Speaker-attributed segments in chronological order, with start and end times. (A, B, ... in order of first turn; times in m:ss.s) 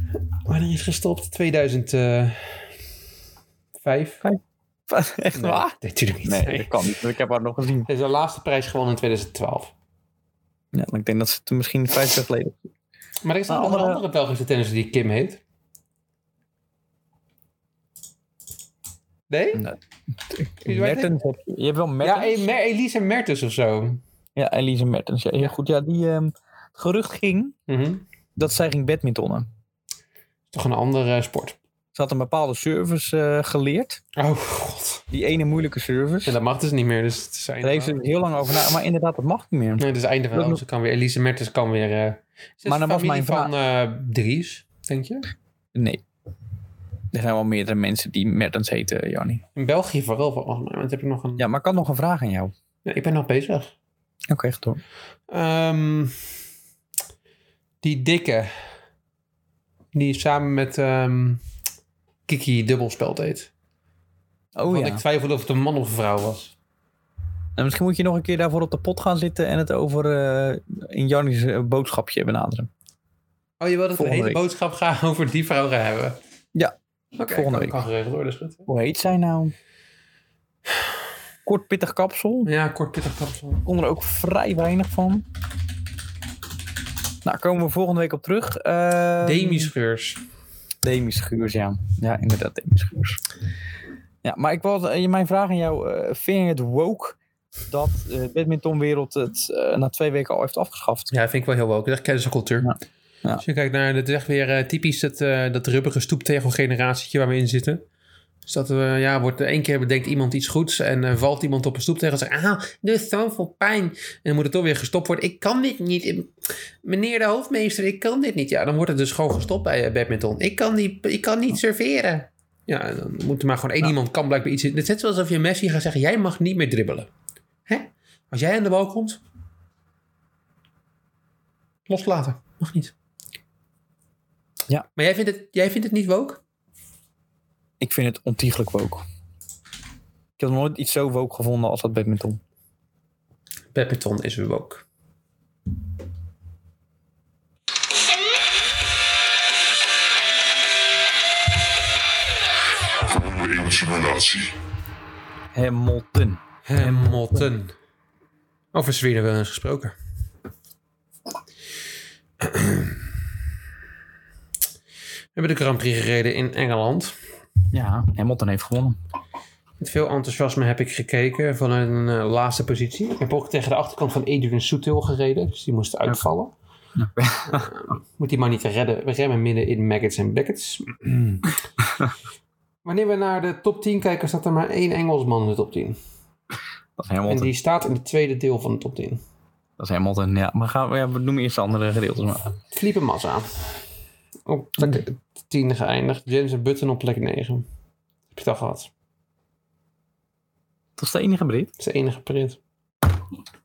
0:00.5-0:02.7 A
0:03.8-0:04.2 A
0:04.2-0:07.9 B
0:05.4-0:06.8 A
0:07.9-0:09.7 A
0:10.7-0:12.6 B
0:13.2-0:15.4 A
0:13.5-0:14.0 B
0:19.3-0:19.7 A
0:20.3-0:22.4 B
0:20.6-0:21.1 A
0:22.0-0:24.0 A
0:24.4-0:27.6 B
0:27.7-0:28.0 A
0:28.4-0:29.5 B
0:30.5-0:31.6 A
0:31.9-0:34.0 B
0:34.2-0:35.0 A
0:35.1-0:36.3 B
0:36.3-0:38.0 A
0:37.6-0:40.6 B
0:39.8-0:45.2 A
0:42.7-0:43.5 B
0:45.7-0:46.0 B
0:47.1-0:49.4 B
0:49.6-0:51.4 A
0:51.4-0:52.5 B
0:52.8-0:53.7 A
0:54.3-0:54.8 B
0:55.3-0:56.1 A
0:57.8-0:58.5 A
0:59.9-1:01.4 A
1:02.3-1:03.5 A
1:04.6-1:05.0 B
1:04.7-1:06.5 A
1:07.6-1:12.7 B
1:13.6-1:16.2 A
1:14.0-1:14.4 B
1:17.2-1:18.7 A
1:17.3-1:17.8 B
1:18.7-1:19.5 B
1:21.4-1:22.5 B
1:22.5-1:23.6 A
1:23.6-1:25.3 B
1:27.2-1:29.7 B
1:29.2-1:30.2 A
1:30.8-1:33.2 B
1:34.2-1:37.2 B
1:37.7-1:41.1 B
1:41.1-1:42.7 A
1:42.6-1:43.4 B
1:43.4-1:47.8 A
1:48.5-2:07.1 A
2:07.7-2:09.2 A
2:11.9-2:12.9 A
2:15.0-2:16.4 A
2:17.8-2:19.0 B
2:20.4-2:22.4 B
2:23.7-2:24.8 A
2:33.5-2:34.2 A
2:35.5-2:37.5 B
2:36.7-2:37.7 A
2:38.7-2:40.0 A
2:42.4-2:43.1 A
2:45.4-2:47.2 A
2:47.7-2:49.0 B
2:49.8-2:56.5 A
2:57.0-2:57.7 B
2:57.5-3:01.5 A
3:01.8-3:02.1 B
3:02.8-3:06.0 A
3:07.0-3:07.5 B
3:07.3-3:09.2 A
3:09.8-3:12.5 B
3:12.7-3:13.5 A
3:14.5-3:17.7 A
3:18.3-3:18.9 A
3:21.0-3:21.7 B
3:21.8-3:22.6 A